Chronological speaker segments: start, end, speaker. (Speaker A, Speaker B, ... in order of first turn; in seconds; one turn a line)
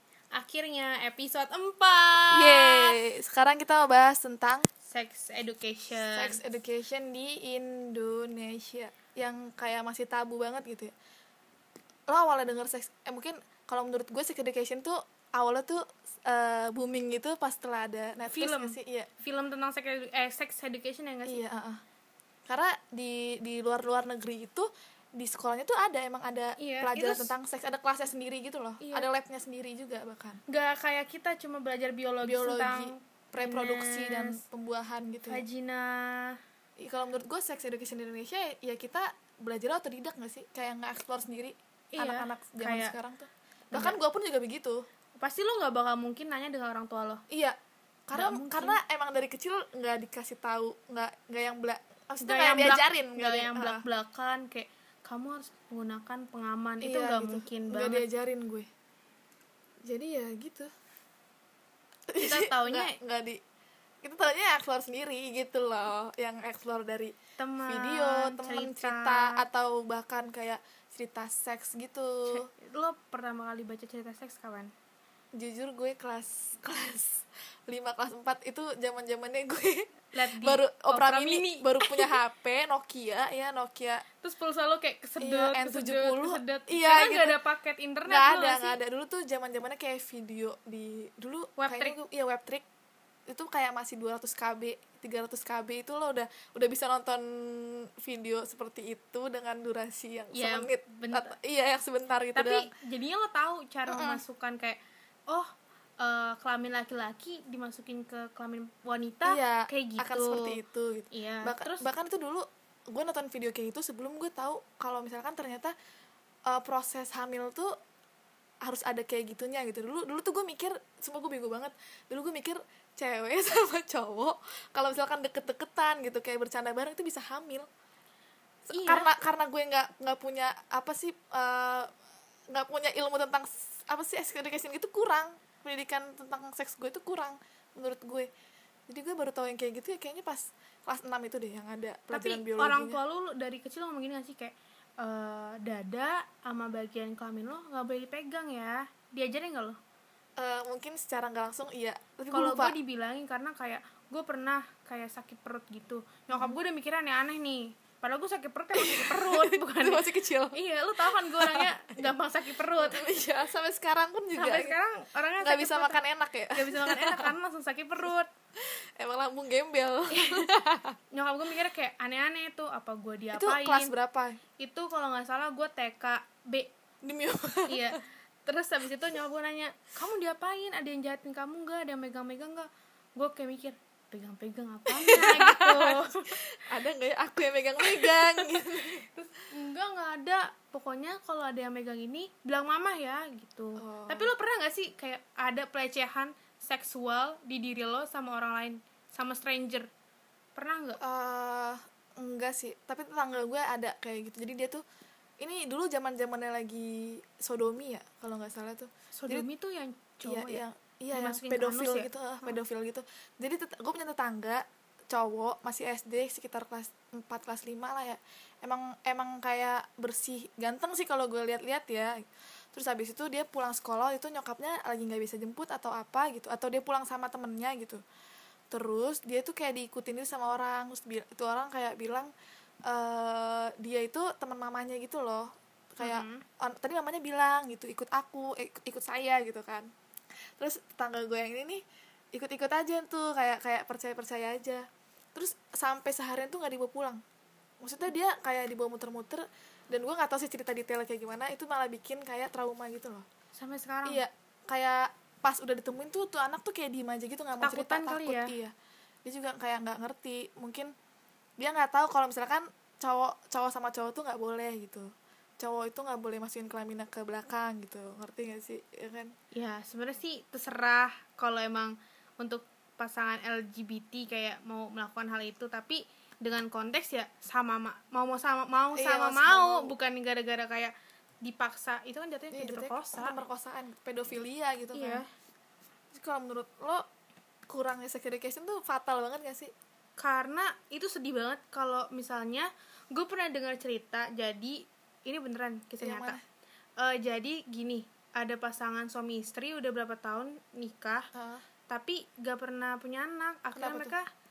Speaker A: 0.3-3.0
Speaker B: 2.3-4.7
Speaker A: 4.9-6.4
Speaker B: 6.0-10.9
Speaker B: 12.1-19.1
Speaker A: 18.3-21.4
Speaker B: 21.3-21.8
Speaker B: 22.5-30.4
Speaker A: 26.6-27.3
Speaker A: 28.8-29.1
Speaker A: 30.5-34.4
Speaker B: 32.2-35.4
Speaker A: 35.3-36.4
Speaker B: 36.8-44.9
Speaker A: 41.9-43.0
Speaker A: 43.7-44.0
Speaker A: 45.2-47.2
Speaker B: 47.3-47.6
Speaker B: 48.1-53.8
Speaker A: 48.1-48.8
Speaker A: 52.2-58.0
Speaker B: 56.8-58.7
Speaker B: 59.9-60.7
Speaker B: 62.1-63.4
Speaker A: 62.2-63.0
Speaker B: 64.0-72.5
Speaker A: 67.4-69.4
Speaker A: 72.3-74.7
Speaker B: 75.3-84.0
Speaker A: 80.1-82.1
Speaker A: 84.2-88.8
Speaker B: 85.2-87.4
Speaker B: 88.0-92.7
Speaker A: 91.6-92.0
Speaker B: 93.3-102.7
Speaker A: 100.3-101.3
Speaker A: 102.3-105.5
Speaker B: 103.9-104.2
Speaker A: 106.0-110.6
Speaker B: 109.3-115.7
Speaker A: 111.1-111.9
Speaker B: 116.5-117.8
Speaker B: 118.6-127.7
Speaker B: 128.7-131.9
Speaker A: 128.7-129.1
Speaker B: 132.5-138.3
Speaker B: 138.9-143.0
Speaker A: 142.1-149.8
Speaker B: 150.4-152.8
Speaker A: 152.3-163.0
Speaker B: 156.3-156.6
Speaker B: 158.7-162.1
Speaker B: 162.8-164.8
Speaker A: 164.4-166.0
Speaker B: 165.4-167.3
Speaker A: 166.6-168.3
Speaker B: 168.6-171.0
Speaker A: 170.1-170.5
Speaker A: 171.1-173.9
Speaker B: 173.3-174.4
Speaker A: 174.6-176.7
Speaker B: 177.0-178.0
Speaker A: 177.7-186.4
Speaker B: 184.9-189.1
Speaker A: 188.0-188.5
Speaker A: 189.5-199.9
Speaker B: 193.8-194.3
Speaker A: 200.6-201.0
Speaker B: 201.0-204.8
Speaker B: 205.4-209.5
Speaker A: 209.2-212.5
Speaker B: 210.2-222.2
Speaker B: 222.7-228.0
Speaker B: 228.7-232.3
Speaker B: 232.9-239.9
Speaker A: 236.0-236.4
Speaker B: 240.6-241.8
Speaker B: 242.3-247.2
Speaker B: 247.8-253.3
Speaker A: 253.6-254.2
Speaker B: 254.1-258.7
Speaker A: 257.6-258.5
Speaker B: 259.2-260.9
Speaker B: 261.6-269.4
Speaker A: 269.5-283.4
Speaker B: 278.9-279.9
Speaker B: 282.5-285.2
Speaker A: 284.9-285.3
Speaker B: 286.1-287.1
Speaker B: 287.7-289.7
Speaker A: 290.2-296.4
Speaker B: 296.0-296.4
Speaker A: 297.0-301.3
Speaker B: 301.3-301.6
Speaker A: 301.9-304.3
Speaker B: 303.8-304.1